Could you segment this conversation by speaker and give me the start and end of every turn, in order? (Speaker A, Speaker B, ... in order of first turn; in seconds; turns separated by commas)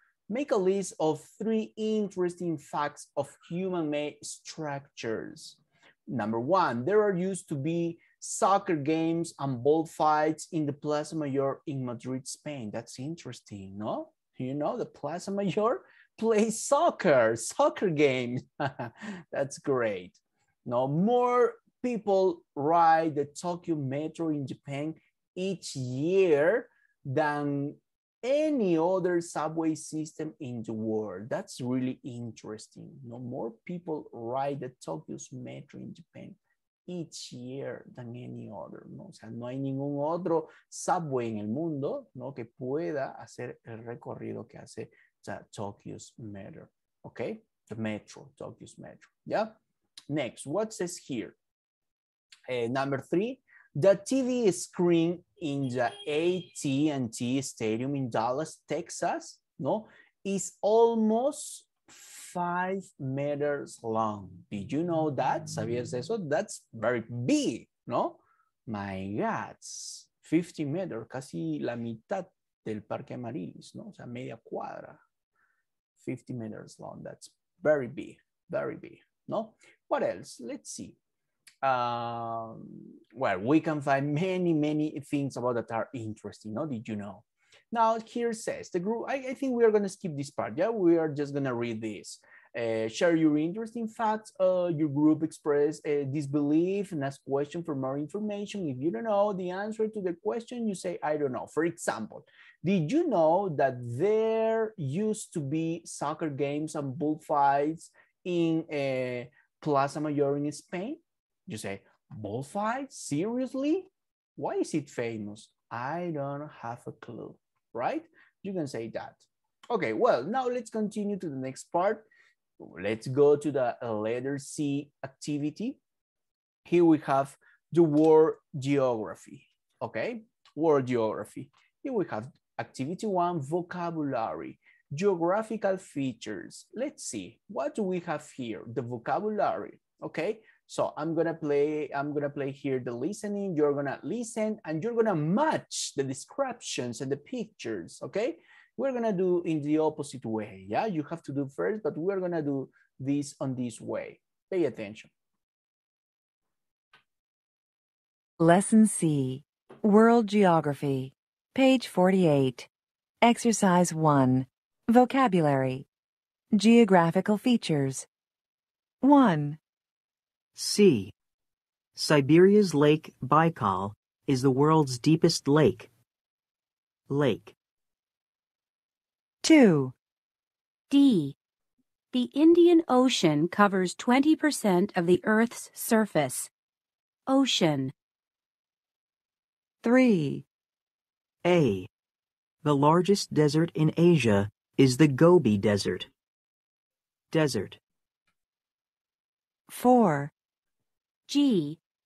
Speaker A: 0.3-49.5, Speaker A: 50.1-51.4, Speaker A: 52.5-75.0, Speaker A: 76.0-81.0, Speaker A: 81.6-122.0, Speaker A: 122.6-125.8, Speaker A: 126.6-155.1, Speaker B: 158.4-162.7, Speaker B: 163.2-165.8, Speaker B: 166.5-168.1, Speaker B: 169.0-169.6, Speaker C: 170.5-171.1, Speaker C: 171.9-175.9, Speaker C: 177.1-177.5, Speaker B: 179.4-179.9, Speaker D: 180.9-181.3, Speaker D: 182.1-186.5, Speaker D: 187.3-187.9, Speaker B: 189.8-190.4, Speaker C: 191.4-191.9, Speaker C: 192.6-196.1, Speaker C: 197.3-197.8, Speaker B: 199.7-200.3, Speaker D: 201.3-201.8